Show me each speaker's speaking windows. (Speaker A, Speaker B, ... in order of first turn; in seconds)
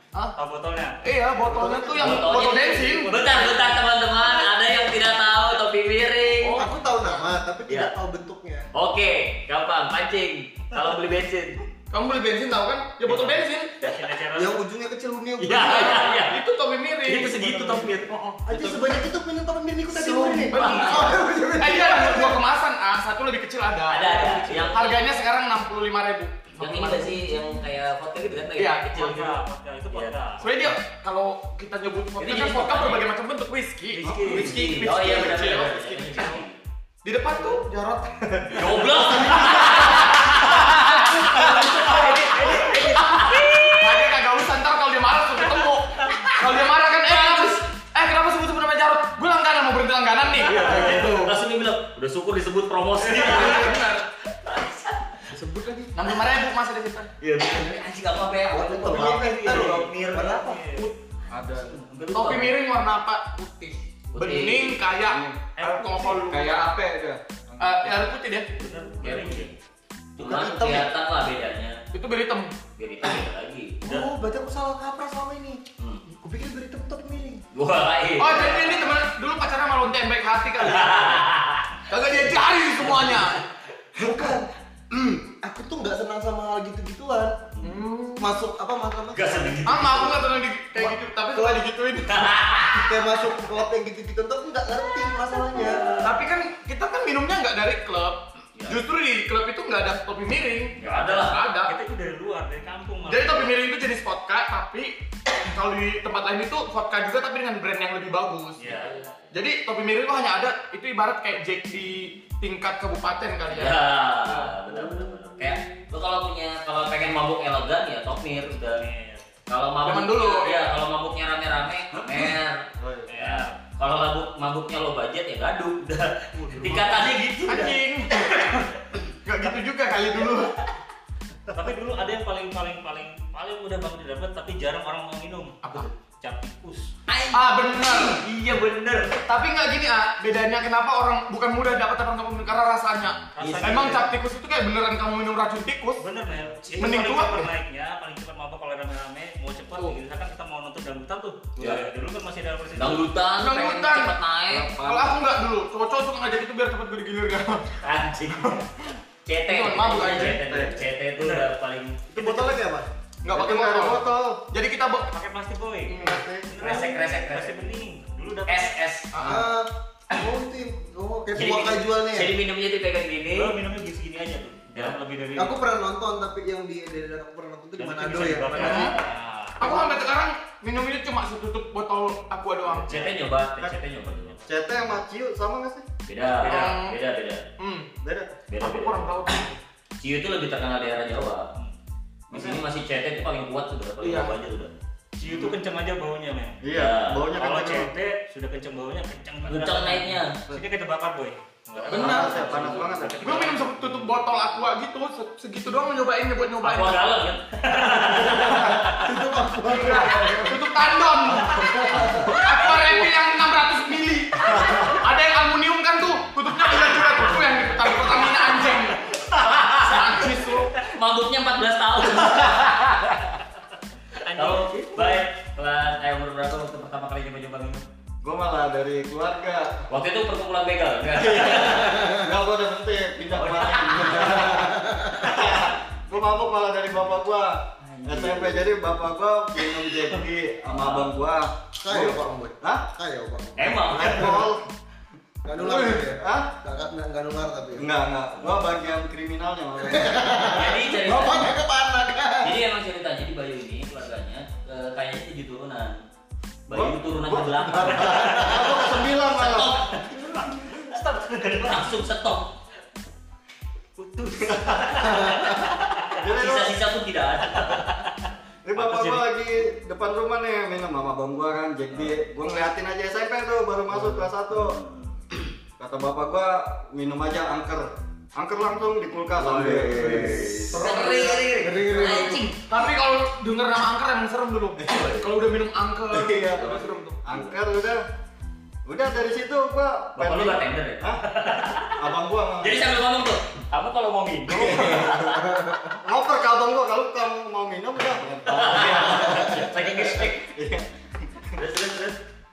Speaker A: 0.3-1.0, 2.2-3.8, 13.0-14.6, 28.9-30.7, 33.9-34.6, 41.8-42.6, 58.8-60.9, 68.5-69.5, 101.4-103.5, 108.6-109.0, 118.8-119.3, 123.1-123.6, 126.3-127.1, 131.5-136.9, 143.3-144.1, 146.0-153.1, 160.1-160.3, 161.2-161.4, 165.1-168.7, 173.3-175.6, 177.8-179.8, 184.0-184.4, 195.2-196.7, 197.2-203.8, 208.0-208.2, 218.0-218.8, 224.2-225.3, 260.7-261.9, 264.0-265.4, 267.6-268.1, 268.7-269.3
Speaker B: 1.0-3.1, 6.4-6.7, 11.9-13.8, 15.5-18.4, 20.5-27.5, 28.6-28.9, 30.4-36.4, 37.0-51.4, 53.0-54.0, 55.9-57.1, 62.1-66.9, 67.6-68.5, 71.9-72.5, 78.2-81.3, 81.9-83.4, 87.6-88.3, 89.7-92.7, 96.0-101.7, 103.1-104.9, 105.5-113.8, 119.8-120.7, 127.5-128.7, 129.2-130.5, 137.3-138.2, 139.1-146.0, 146.8-147.5, 153.4-154.2, 154.8-157.8, 159.5-160.8, 162.3-162.5, 163.2-165.1, 169.1-169.5, 178.5-178.9, 179.6-183.1, 186.4-187.0, 187.6-187.9, 188.6-189.6, 194.0-194.3, 201.9-202.4, 203.2-207.1, 209.6-219.1, 219.7-220.7, 245.6-246.0, 280.7-287.2
Speaker C: 1.5-2.0, 34.0-34.6, 38.3-38.6, 61.3-61.8, 65.0-68.0, 122.8-123.1, 154.5-155.2, 162.2-162.7, 163.3-164.4, 165.9-166.8, 184.4-185.8, 188.0-188.4, 192.3-192.6, 195.2-195.5, 196.6-197.9, 201.8-203.4, 214.6-214.9, 219.3-219.7, 228.2-229.8, 231.1-242.8, 243.9-244.7, 246.0-246.5, 247.8-250.3, 258.2-259.8, 264.5-264.9, 266.2-266.7, 268.6-274.8, 275.8-281.0, 284.8-285.1, 286.1-288.0, 288.8-291.2, 291.9-292.9, 294.5-295.2, 296.0-301.6
Speaker D: 1.9-6.7, 8.7-11.7, 15.4-16.4, 17.1-19.0, 19.9-21.1, 23.9-25.1, 26.6-30.2, 32.2-33.1, 34.1-36.6, 38.5-44.1, 46.0-46.3, 47.1-47.6, 50.5-55.3, 57.2-60.2, 61.6-62.5, 64.1-64.9, 69.0-69.5, 70.2-71.8, 72.8-74.1, 75.8-76.0, 77.5-78.9, 80.6-81.8, 82.8-83.3, 89.1-90.2, 92.1-93.0, 95.5-96.2, 100.8-101.4, 108.6-109.3, 113.5-118.8, 119.5-127.8, 137.1-139.2, 143.4-144.0, 152.7-154.8, 157.8-158.7, 159.2-162.1, 166.5-167.7, 168.5-169.1, 171.3-173.5, 178.3-179.1, 182.6-184.4, 186.1-187.5, 188.5-189.1, 190.0-191.5, 192.3-194.7, 196.7-197.3, 199.4-200.4, 201.9-202.6, 206.6-209.0, 211.7-213.1, 217.9-218.6, 219.3-220.2, 220.8-223.2, 224.3-227.8, 229.9-232.1, 233.3-234.6, 237.8-238.6, 240.7-241.2, 243.6-244.5, 250.5-251.5, 252.4-256.0, 256.7-260.4, 261.4-262.5, 266.3-267.9, 274.5-275.1, 280.0-282.6, 284.9-285.2, 286.5-287.6, 290.1-295.4, 298.5-300.5, 301.6-302.2
Speaker E: 6.6-8.7, 14.3-16.2, 18.4-22.4, 41.4-42.8, 55.3-56.2, 58.5-60.6, 70.2-70.9, 73.8-75.6, 76.1-77.4, 84.0-87.4, 88.2-90.9, 92.7-95.9, 162.1-162.9, 169.2-172.3, 175.3-178.8, 208.4-210.7, 211.4-212.3, 231.9-232.2, 234.3-235.4, 241.7-244.5, 245.4-247.8, 249.8-252.6, 256.7-258.9, 265.0-265.7, 279.4-282.4, 294.7-295.9